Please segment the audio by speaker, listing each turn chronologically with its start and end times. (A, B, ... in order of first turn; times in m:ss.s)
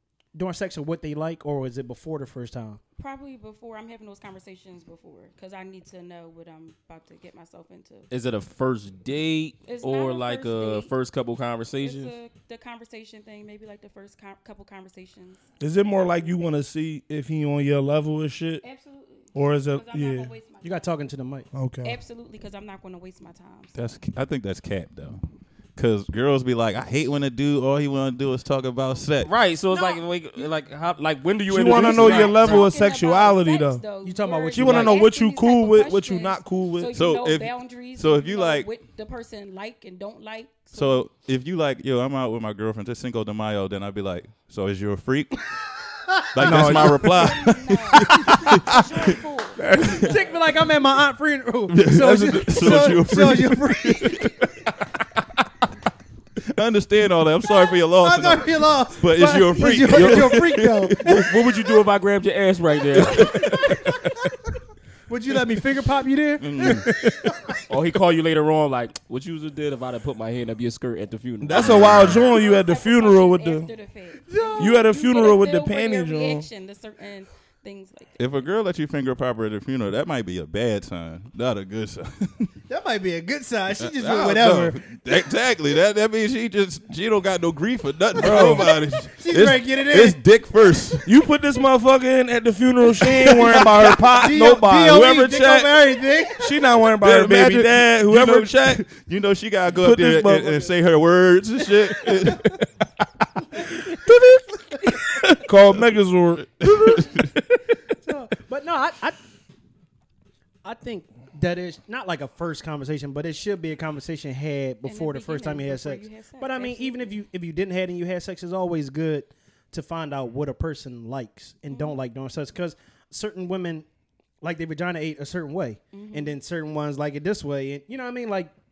0:00.4-0:02.8 A
0:03.0-0:08.1 B
0:08.1-0:12.1 C
0:09.6-0:10.9 B
0:11.8-0:15.4 B
0:15.6-0:18.6 D
0:18.6-0:20.9 B
0:19.3-0:20.3 D
0:20.6-0:21.5 A
0:21.5-0:22.0 D
0:21.8-0:24.0 B
0:23.8-0:25.2 E
0:25.8-0:29.3 E
0:29.2-0:32.7 C
0:29.7-0:30.0 B
0:31.5-0:33.9 D
0:31.8-0:41.1 B
0:34.0-0:35.1 A
0:34.5-0:36.9 D
0:36.9-0:38.7 E
0:40.7-0:45.5 E
0:46.3-0:48.8 E
0:46.4-0:47.4 D
0:47.0-0:49.9 B
0:48.0-0:48.8 D
0:49.6-0:50.1 D
0:49.9-0:54.4 A
0:51.7-0:54.3 E
0:56.5-1:01.0 E
0:57.8-1:01.3 A
0:59.9-1:00.5 C
1:01.0-1:03.9 C
1:03.0-1:03.6 E
1:03.3-1:04.2 A
1:05.1-1:07.6 A
1:06.4-1:06.9 E
1:06.8-1:07.2 D
1:07.7-1:12.1 C
1:11.4-1:13.7 D
1:11.6-1:12.3 E
1:11.8-1:18.2 B
1:14.3-1:14.9 A
1:14.6-1:16.5 D
1:18.2-1:22.5 E
1:22.7-1:24.8 A
1:23.8-1:31.1 E
1:28.2-1:28.7 D
1:28.3-1:30.2 A
1:31.0-1:38.8 D
1:33.0-1:36.7 A
1:37.0-1:42.6 E
1:39.8-1:40.7 D
1:43.9-1:47.7 D
1:44.7-1:45.1 A
1:46.6-1:47.2 E
1:48.0-1:49.2 A
1:50.6-2:03.9 A
1:54.8-1:57.2 B
2:01.7-2:02.0 B
2:04.4-2:08.5 A
2:05.9-2:06.4 B